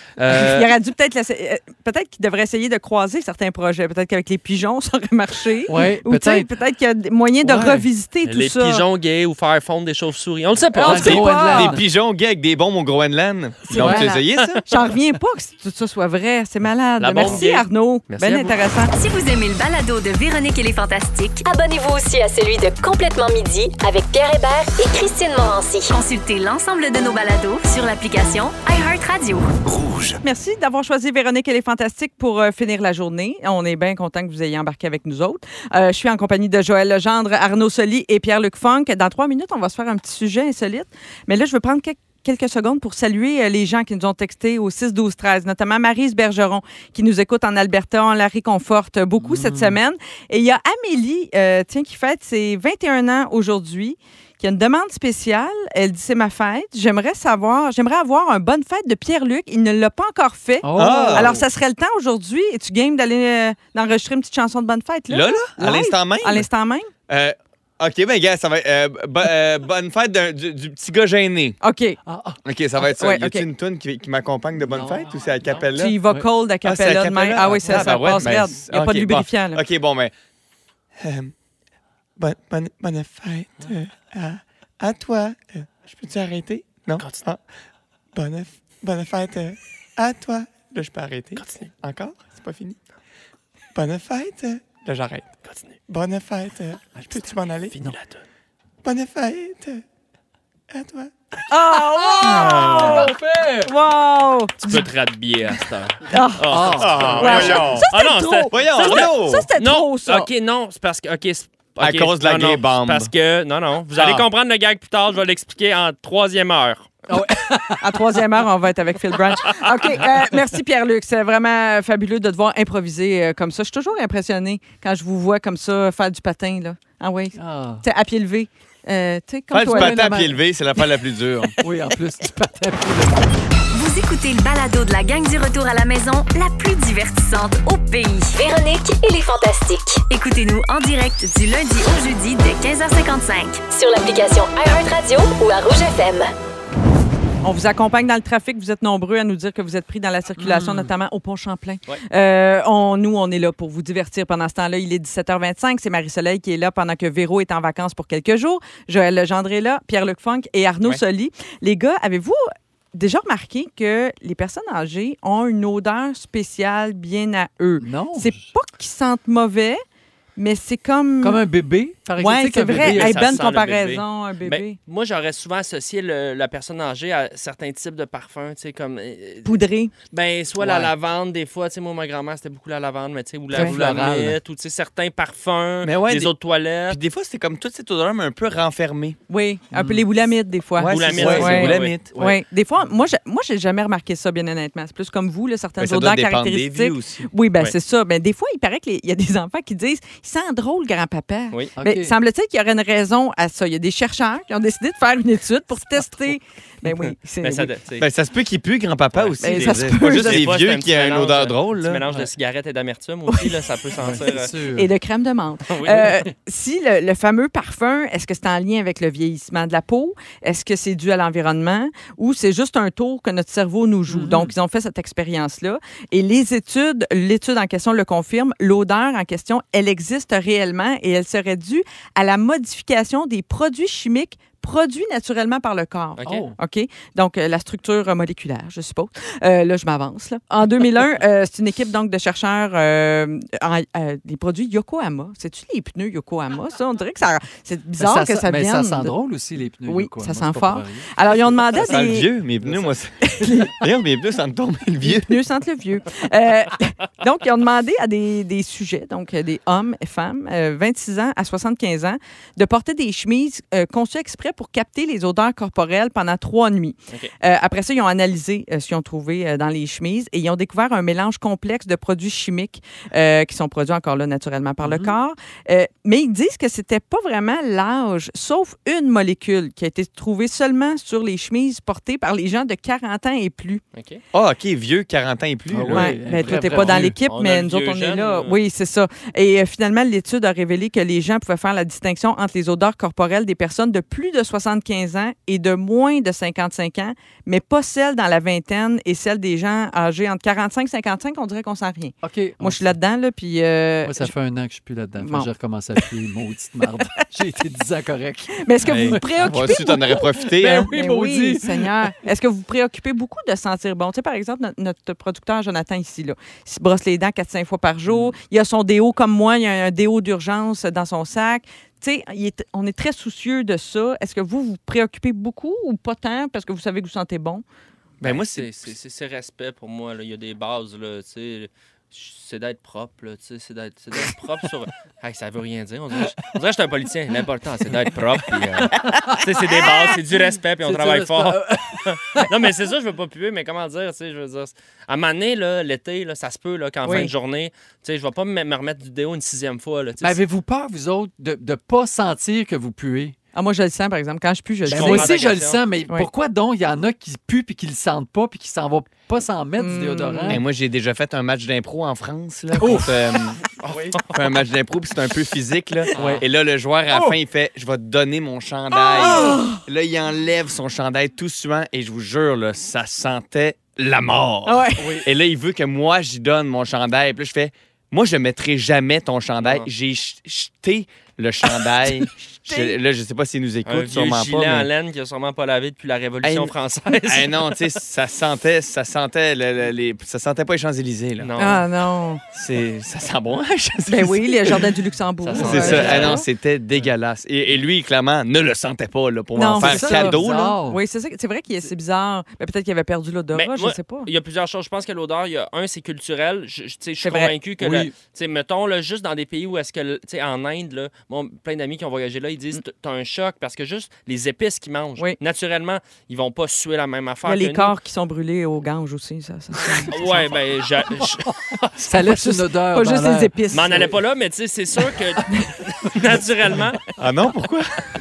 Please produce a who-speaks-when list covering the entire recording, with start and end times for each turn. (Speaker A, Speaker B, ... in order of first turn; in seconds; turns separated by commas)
Speaker A: 0.2-0.7, Speaker B: 0.3-8.8, Speaker C: 5.7-6.5, Speaker C: 7.4-7.9, Speaker A: 8.2-11.2, Speaker B: 10.7-11.7, Speaker C: 10.8-11.8, Speaker D: 11.3-14.6, Speaker B: 13.7-18.9, Speaker C: 13.7-14.1, Speaker A: 14.4-14.6, Speaker A: 17.0-18.5, Speaker E: 18.9-21.4, Speaker F: 21.4-25.9, Speaker E: 25.9-29.5, Speaker B: 30.2-66.9, Speaker C: 49.2-49.8, Speaker C: 60.6-61.4, Speaker D: 60.8-61.4, Speaker D: 65.1-66.5, Speaker D: 67.1-71.6, Speaker B: 71.6-72.0, Speaker C: 72.0-72.4, Speaker D: 72.4-76.0, Speaker B: 73.0-73.4, Speaker C: 74.7-76.2, Speaker B: 75.8-79.6, Speaker D: 76.6-80.1, Speaker C: 77.4-78.3, Speaker D: 81.0-81.3, Speaker D: 82.2-87.4, Speaker A: 87.0-87.2, Speaker D: 88.1-92.8, Speaker A: 91.3-91.7, Speaker D: 93.7-95.3, Speaker A: 95.5-95.7, Speaker D: 95.9-97.7, Speaker A: 97.7-98.2, Speaker D: 98.8-99.8, Speaker D: 100.7-101.1, Speaker B: 101.5-103.1, Speaker C: 101.9-103.7, Speaker D: 102.4-102.9, Speaker B: 103.6-104.9, Speaker A: 104.6-117.0, Speaker B: 106.1-106.5, Speaker C: 106.5-107.5, Speaker D: 106.7-107.9, Speaker B: 107.2-110.3, Speaker D: 108.5-109.5, Speaker D: 111.8-113.1, Speaker D: 113.9-114.2, Speaker C: 117.1-118.2, Speaker B: 117.7-130.1, Speaker C: 127.3-127.8, Speaker D: 129.5-131.5, Speaker C: 129.6-130.4, Speaker C: 131.6-133.3, Speaker E: 133.7-138.3, Speaker F: 138.3-140.0, Speaker E: 140.1-143.6, Speaker F: 143.7-146.3, Speaker B: 147.4-169.8, Speaker C: 150.4-150.9, Speaker C: 167.8-168.5, Speaker B: 170.4-171.4, Speaker C: 171.2-173.2, Speaker B: 172.2-174.8, Speaker A: 172.8-187.0, Speaker B: 179.4-179.9, Speaker C: 180.6-180.9, Speaker C: 183.5-184.4, Speaker D: 185.8-186.3, Speaker D: 186.9-189.2, Speaker B: 189.3-207.7, Speaker C: 189.7-190.1, Speaker D: 190.8-192.1, Speaker A: 190.9-191.9, Speaker C: 191.2-192.4, Speaker D: 195.8-197.3, Speaker C: 201.8-202.1, Speaker A: 207.4-208.1, Speaker D: 208.0-212.0, Speaker A: 209.1-214.5, Speaker B: 209.4-210.4, Speaker C: 214.0-214.9, Speaker B: 214.7-249.1, Speaker A: 215.7-216.2, Speaker C: 224.1-224.5, Speaker A: 236.2-236.4, Speaker C: 236.2-236.6, Speaker C: 248.0-251.1, Speaker B: 249.8-252.3, Speaker D: 251.9-255.4, Speaker B: 253.2-253.8, Speaker B: 255.0-283.8, Speaker C: 274.8-275.1, Speaker A: 283.9-284.2, Speaker D: 284.3-286.2, Speaker C: 285.7-287.2, Speaker B: 285.9-304.3, Speaker A: 286.5-288.5, Speaker C: 302.2-303.0, Speaker C: 304.0-311.9, Speaker B: 305.2-305.5, Speaker B: 308.6-327.6, Speaker D: 308.8-310.9, Speaker C: 318.1-318.3, Speaker D: 328.2-328.9, Speaker A: 328.2-350.4, Speaker C: 339.1-342.5, Speaker B: 347.0-347.3, Speaker C: 350.2-353.4, Speaker B: 353.5-355.3, Speaker A: 354.9-355.8, Speaker C: 354.9-360.6, Speaker B: 359.8-360.6, Speaker D: 360.5-363.6, Speaker C: 362.7-363.4, Speaker A: 363.8-364.2, Speaker D: 364.3-384.9, Speaker A: 366.1-366.4, Speaker C: 366.1-366.4, Speaker C: 367.1-367.3, Speaker B: 368.9-369.8, Speaker B: 374.6-375.1, Speaker C: 375.0-375.3, Speaker A: 379.6-379.9, Speaker B: 382.1-383.0, Speaker A: 383.8-387.8, Speaker D: 386.4-386.7, Speaker D: 387.2-391.8, Speaker A: 391.4-391.8, Speaker B: 391.6-392.4, Speaker D: 392.5-394.8, Speaker B: 394.1-396.4, Speaker A: 395.4-396.4, Speaker D: 395.6-400.8, Speaker B: 399.5-404.3, Speaker C: 399.8-401.0, Speaker A: 403.5-417.9, Speaker B: 407.2-407.5, Speaker C: 407.8-408.1, Speaker B: 417.4-420.2, Speaker A: 420.1-422.2, Speaker C: 421.2-421.5, Speaker C: 422.0-423.5, Speaker B: 422.2-424.1, Speaker A: 423.7-427.0, Speaker D: 427.2-427.9